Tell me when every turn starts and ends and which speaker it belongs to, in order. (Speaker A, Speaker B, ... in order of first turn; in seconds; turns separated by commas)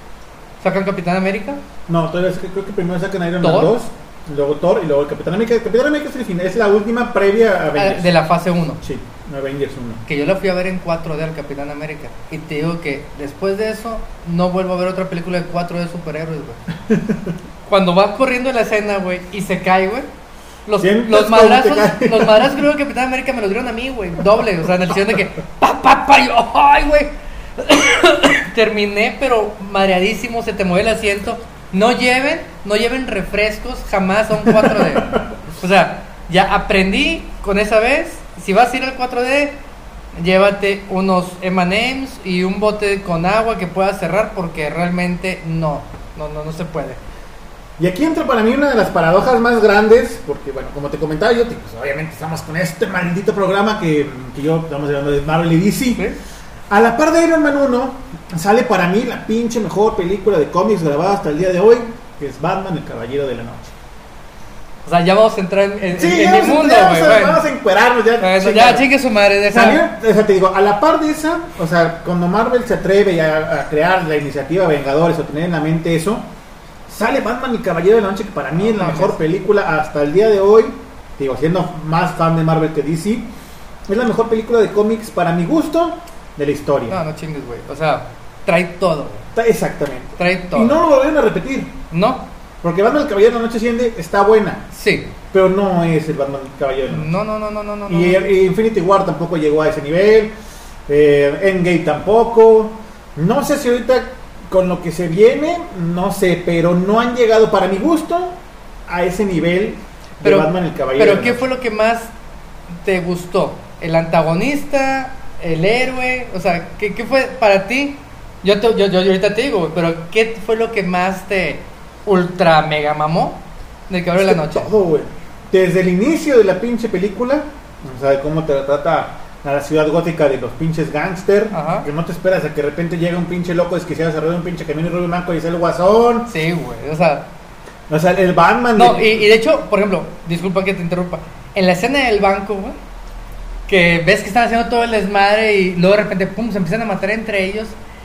Speaker A: 0.6-1.6, Speaker B: 1.9-8.1, Speaker A: 3.4-3.7, Speaker A: 7.8-8.8, Speaker B: 8.8-10.0, Speaker A: 10.1-16.6, Speaker B: 16.9-17.4, Speaker A: 17.7-20.1, Speaker A: 20.7-39.5, Speaker B: 20.8-22.6, Speaker B: 34.5-35.4, Speaker A: 40.2-47.0, Speaker B: 47.8-56.0, Speaker B: 56.7-63.7, Speaker A: 64.9-67.5, Speaker B: 66.0-68.9, Speaker A: 68.2-69.8, Speaker B: 69.5-76.3, Speaker B: 76.9-83.3, Speaker A: 78.6-79.2, Speaker B: 83.9-87.0, Speaker A: 86.9-89.3, Speaker B: 89.3-91.8, Speaker A: 90.2-90.8, Speaker A: 91.9-92.2, Speaker B: 92.6-94.6, Speaker A: 94.7-95.2, Speaker B: 95.3-97.1, Speaker A: 96.9-98.2, Speaker B: 97.9-100.3, Speaker B: 100.9-111.5, Speaker A: 110.2-112.1, Speaker A: 112.8-124.7, Speaker B: 124.2-136.3, Speaker A: 131.5-131.9, Speaker A: 136.3-137.3, Speaker B: 137.9-139.2, Speaker A: 138.8-142.8, Speaker A: 143.7-147.8